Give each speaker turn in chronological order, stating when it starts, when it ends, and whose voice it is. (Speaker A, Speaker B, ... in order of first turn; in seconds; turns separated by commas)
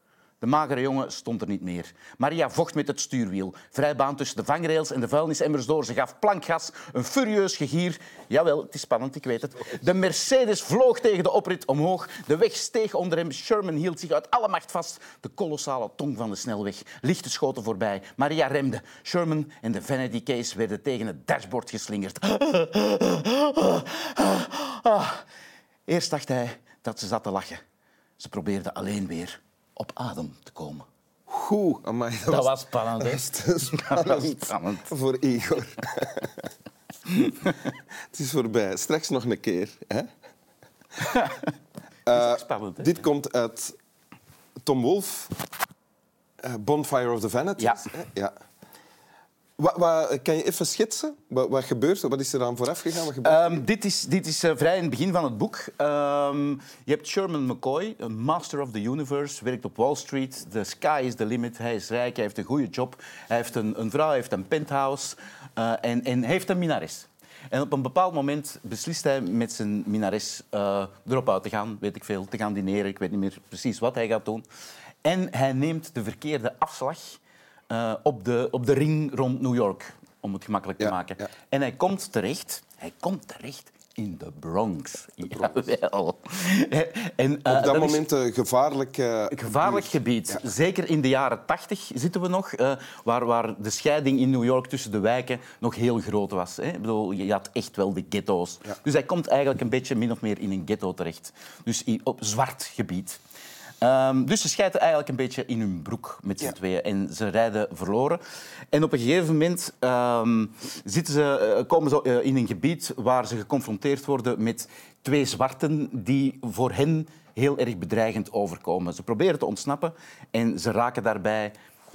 Speaker A: 0.4-25.2, Speaker A: 25.9-27.6, Speaker A: 28.2-30.9, Speaker B: 31.3-36.5, Speaker A: 32.3-34.9, Speaker A: 37.1-37.6, Speaker B: 38.1-40.1, Speaker A: 41.0-41.5, Speaker B: 42.1-43.7, Speaker A: 42.1-43.0, Speaker B: 44.6-45.4, Speaker B: 46.4-48.3, Speaker A: 47.6-47.9, Speaker B: 49.6-53.6, Speaker A: 53.2-74.4, Speaker A: 75.0-88.1, Speaker B: 80.8-81.3, Speaker B: 85.3-85.6, Speaker B: 87.5-90.4, Speaker A: 89.3-103.2, Speaker A: 103.8-108.2, Speaker A: 108.7-121.5